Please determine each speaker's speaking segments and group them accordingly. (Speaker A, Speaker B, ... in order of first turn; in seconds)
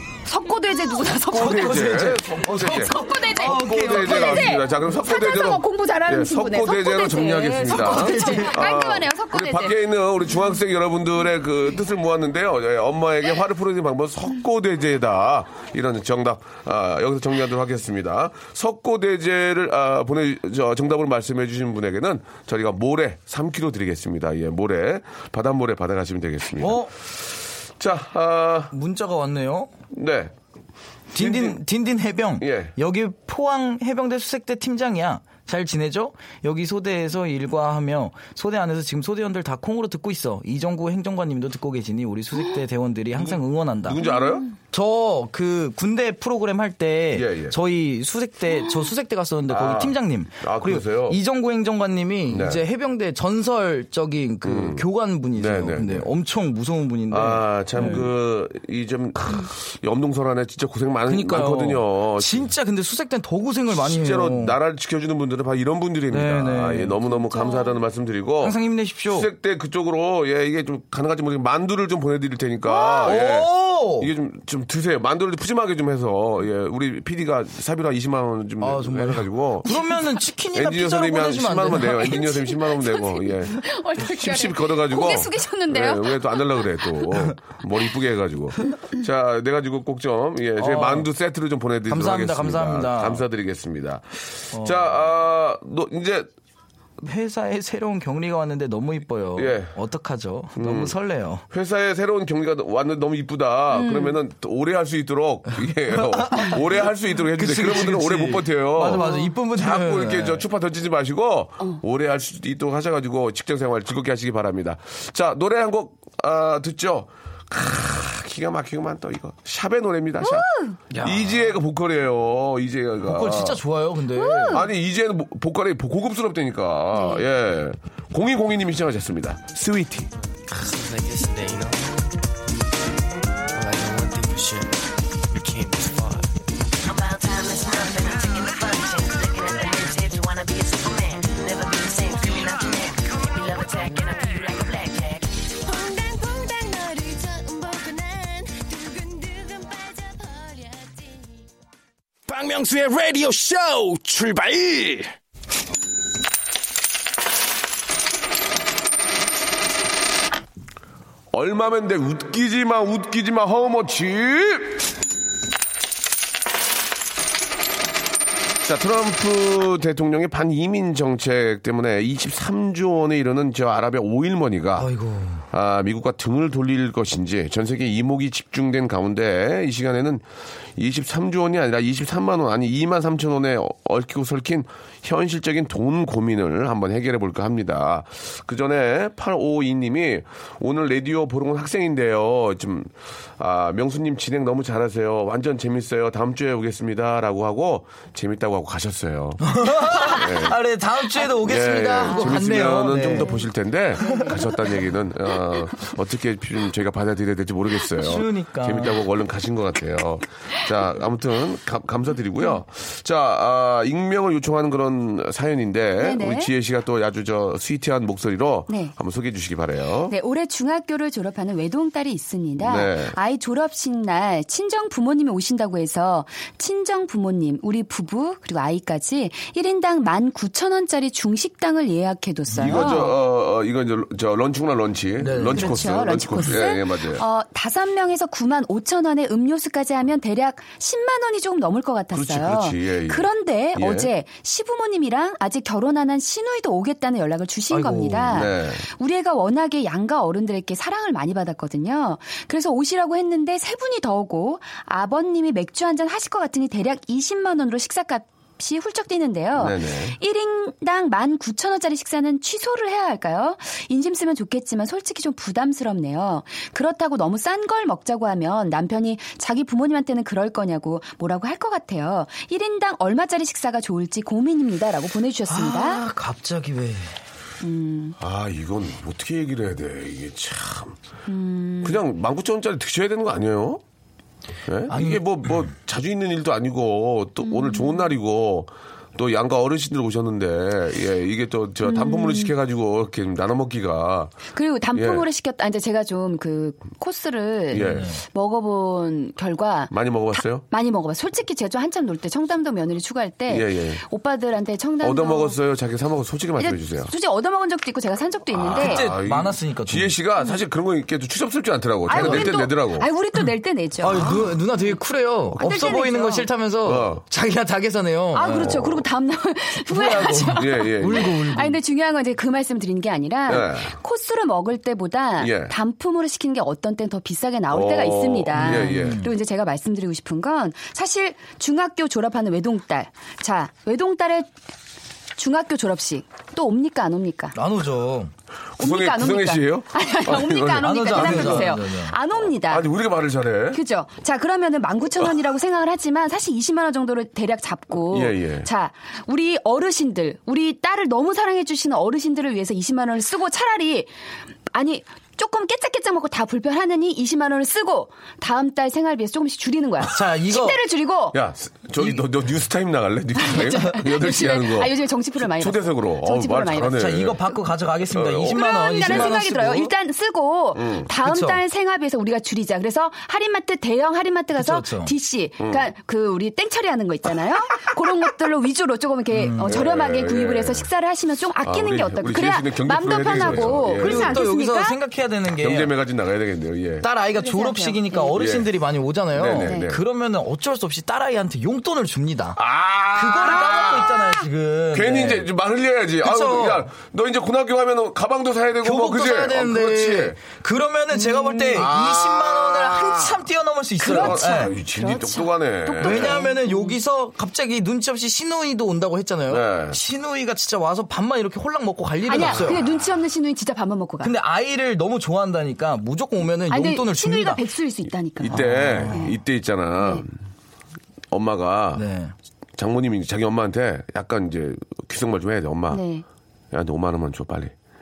Speaker A: 0.2-2.0, 2.6-9.8, 44.0-44.5, 67.1-67.8, 82.2-86.7, 103.7-104.2, 109.0-109.3, 120.2-120.8, 124.1-124.7, 126.9-127.2, 203.0-203.4, 204.0-204.5, 216.0-216.5, 218.7-218.9, 220.1-233.2, 235.5-276.0, 277.6-278.2, 281.3-282.0, 287.4-288.0, 291.8-292.5, 294.5-305.6, 306.6-309.1, 312.1-314.5, 315.6-316.5, 318.3-334.5, 335.4-337.6, 338.8-342.9, 343.7-354.1, 354.7-361.4, 363.4-367.0, 368.5-385.0, 387.4-388.4, 389.6-389.9, 393.7-393.9, 401.1-401.9, 404.0-407.0, 412.3-414.3, 416.7-419.4, 420.0-420.2, 425.9-426.2
Speaker B: 1.3-28.7, 29.9-30.3, 31.2-31.6, 32.4-32.7, 43.2-44.5, 47.1-47.6, 49.5-51.2, 52.3-52.6, 54.4-56.1, 57.1-62.5, 63.7-79.8, 80.5-96.3, 99.4-99.8, 100.6-101.0, 101.5-123.6, 124.5-130.1, 161.3-164.8, 168.6-174.9, 175.5-180.2, 180.8-200.6, 201.3-220.2, 222.6-223.2, 232.6-237.2, 242.1-244.1, 248.3-248.8, 259.6-260.2, 278.2-281.0, 281.8-283.8, 284.7-294.4, 294.9-295.2, 297.7-298.1, 299.9-300.6, 303.5-304.0, 305.0-307.1, 308.5-313.1, 316.9-317.2, 318.6-319.0, 320.5-321.4, 323.5-323.9, 325.4-325.7, 327.7-329.2, 338.8-341.8, 342.4-343.8, 348.1-348.7, 361.3-367.4, 368.1-369.4, 370.8-371.1, 379.6-380.9, 381.6-384.4, 385.5-387.1, 388.4-388.7, 389.3-390.0, 392.6-394.2, 394.9-400.4, 401.8-403.4, 404.1-406.4, 409.5-410.0, 418.4-420.3, 421.3-422.1, 422.8-426.0, 426.7-427.7
Speaker C: 1.3-4.6, 7.7-8.6, 26.6-26.9, 28.7-29.7, 31.1-44.0, 44.7-58.1, 61.1-64.6, 66.1-67.0, 68.4-69.3, 72.7-74.1, 78.6-82.3, 90.6-91.1, 91.9-93.2, 94.5-94.9, 97.0-101.5, 106.0-106.6, 107.3-110.5, 120.9-121.5, 123.0-124.6, 174.8-175.4, 199.4-203.3, 208.0-209.0, 232.5-233.0, 235.2-235.8, 247.7-248.5, 275.5-277.2, 284.9-285.2, 297.8-298.2, 308.8-310.1, 312.1-312.5, 314.0-318.8, 319.9-321.8, 328.6-329.3, 337.6-338.3, 340.8-342.1, 360.1-360.8, 366.9-369.9, 371.2-371.6, 374.6-375.1, 379.3-379.8, 383.3-385.9, 387.0-392.6, 393.1-395.5, 396.2-396.9, 398.8-404.7, 406.0-412.8, 414.2-417.6, 418.5-419.3, 421.9-422.3
Speaker D: 130.5-132.1, 133.5-134.8, 135.3-136.3, 136.8-145.2, 147.1-147.5
Speaker E: 152.3-155.1